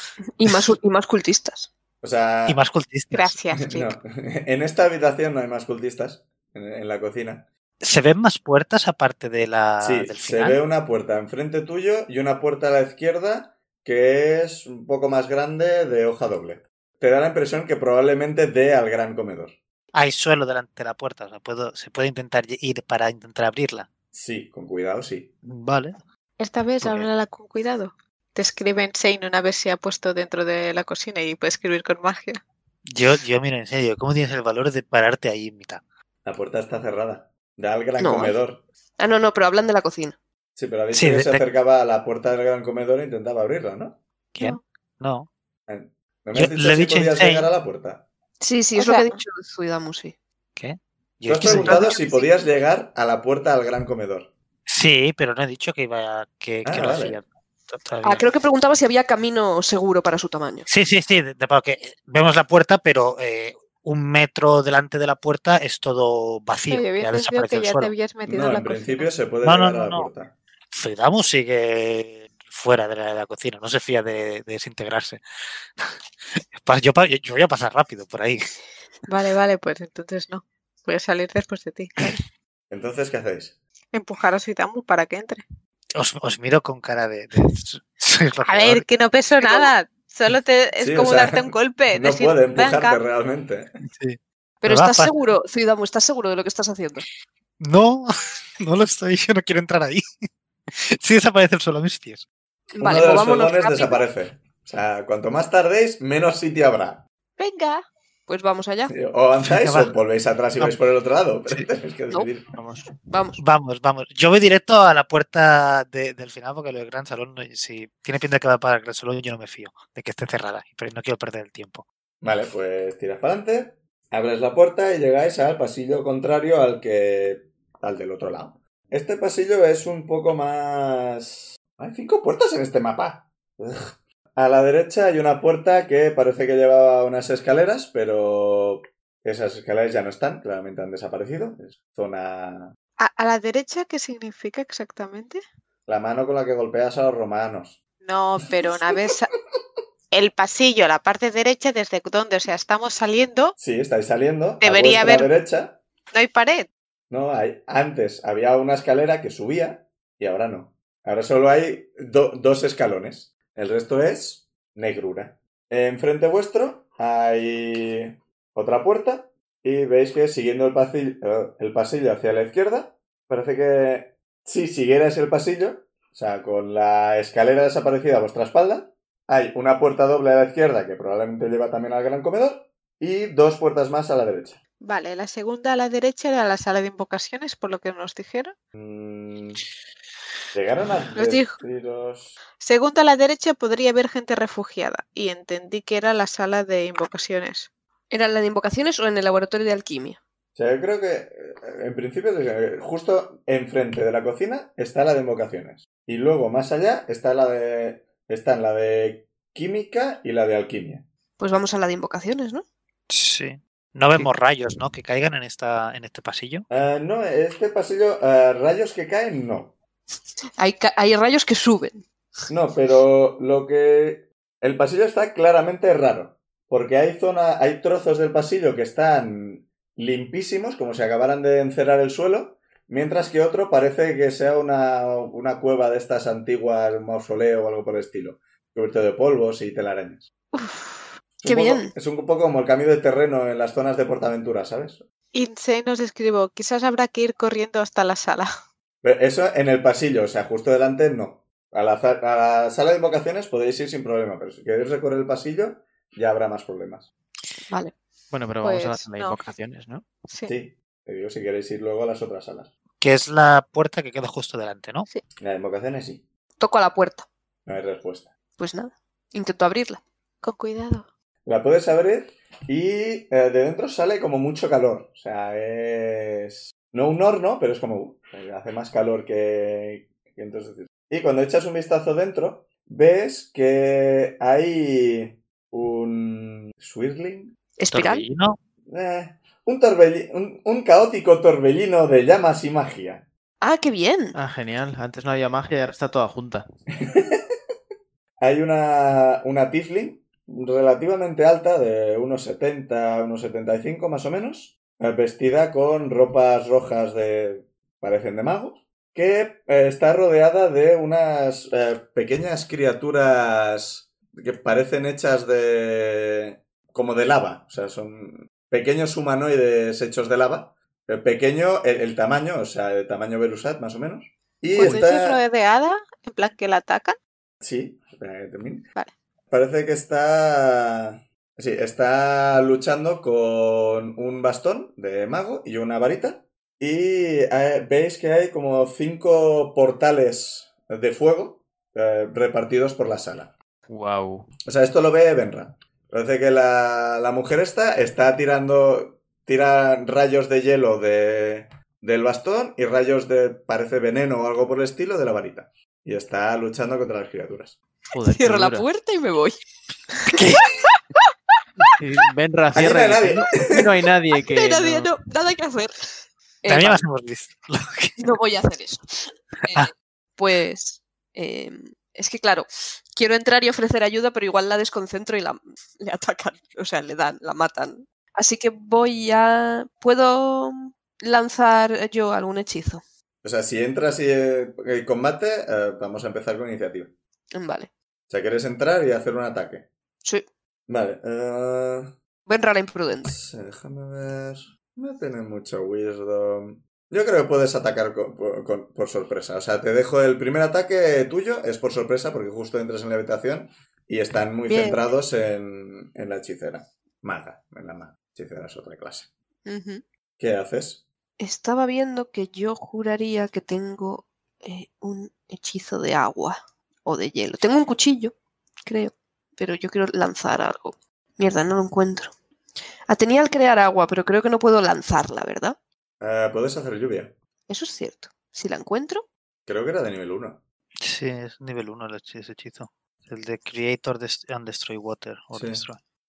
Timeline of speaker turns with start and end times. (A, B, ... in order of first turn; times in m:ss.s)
0:00.4-0:01.7 A
0:02.0-0:02.6 B
0:02.4-0:03.4 C
0:03.1-0:03.9 D
0:03.6-0:07.4 B
0:07.8-0:10.6 C
0:09.8-0:19.6 B
0:19.9-0:23.9 C
0:24.1-0:25.3 B
0:25.4-0:26.0 C
0:26.4-0:32.4 D
0:26.8-0:27.1 B
0:32.9-0:35.8 C
0:36.2-0:38.6 B
0:38.0-0:38.4 A
0:39.0-0:40.2 A
0:40.6-0:44.0 B
0:40.9-0:41.4 C
0:44.3-0:45.3 C
0:45.7-0:48.0 B
0:46.3-0:47.5 C
0:48.4-0:50.1 A
0:48.7-0:49.2 D
0:50.6-0:51.9 C
0:51.2-0:54.3 B
0:51.4-0:52.2 A
0:54.7-0:58.2 C
0:56.6-0:57.2 B
0:58.0-1:00.7 A
1:00.7-1:07.9 C
1:06.7-1:09.1 D
1:08.3-1:10.3 B
1:09.4-1:10.1 C
1:10.7-1:15.2 C
1:16.5-1:18.4 C
1:19.1-1:22.2 D
1:22.7-1:23.6 B
1:23.9-1:25.4 D
1:25.9-1:28.9 C
1:28.4-1:33.0 D
1:30.8-1:33.7 B
1:33.8-1:35.1 C
1:34.6-1:37.0 A
1:37.6-1:40.0 C
1:40.8-1:42.2 C
1:42.8-1:44.0 A
1:42.8-1:47.0 B
1:47.4-1:47.8 D
1:48.3-1:48.9 A
1:48.9-1:52.4 B
1:49.4-1:49.9 C
1:52.5-1:52.9 E
1:53.1-1:53.4 A
1:53.4-2:01.8 C
2:02.2-2:22.7 B
2:23.0-2:25.4 D
2:25.9-2:27.8 B
2:28.0-2:29.3 D
2:28.9-2:29.1 B
2:30.1-2:33.5 D
2:33.6-2:35.8 B
2:34.6-2:35.3 D
2:36.1-2:36.7 D
2:37.1-3:04.6 B
3:04.8-3:08.5 D
3:08.7-3:09.6 B
3:10.5-3:12.4 B
3:11.1-3:11.6 D
3:12.6-3:17.7 D
3:18.1-3:20.2 A
3:20.5-3:31.0 B
3:31.4-3:32.6 A
3:33.1-3:36.6 C
3:36.7-3:39.8 B
3:40.6-3:42.0 A
3:42.5-4:00.3 B
4:00.6-4:01.9 A
4:01.4-4:05.0 B
4:05.3-4:08.5 D
4:09.0-4:17.1 B
4:17.7-4:17.9 A
4:18.3-4:20.0 E
4:18.6-4:19.4 D
4:20.2-4:20.5 D
4:20.4-4:22.7 B
4:23.0-4:25.1 C
4:25.4-4:26.2 B
4:26.6-4:27.3 A
4:27.6-4:28.3 B
4:28.6-4:30.0 A
4:30.4-4:31.1 D
4:31.4-4:47.5 B
4:47.8-4:48.2 A
4:47.9-4:48.6 C
4:48.9-4:53.2 B
4:53.6-4:54.3 A
4:54.3-4:56.6 E
4:57.0-4:57.4 B
4:58.4-5:25.4 B
5:24.7-5:27.2 D
5:27.6-5:28.8 B
5:29.5-5:43.5 B
5:43.9-5:44.5 E
5:44.6-5:57.8 B
5:58.1-5:58.8 E
5:58.3-5:59.6 A
6:00.3-6:00.6 C
6:00.3-6:01.0 A
6:01.8-6:05.1 E
6:02.7-6:03.8 B
6:04.4-6:07.0 A
6:06.7-6:08.3 C
6:08.2-6:23.0 A
6:23.4-6:27.1 B
6:27.5-6:27.9 A
6:28.3-6:29.9 B
6:30.9-6:32.1 B
6:32.4-6:33.3 A
6:33.3-6:49.3 B
6:44.7-6:45.0 A
6:49.6-6:50.0 A
6:50.4-6:51.0 B
6:51.4-6:58.3 A
6:58.8-7:02.3 A
7:03.1-7:05.8 A
7:06.2-7:07.3 B
7:07.7-7:09.2 A
7:09.6-7:10.6 B
7:11.0-7:16.0 C
7:15.5-7:15.8 B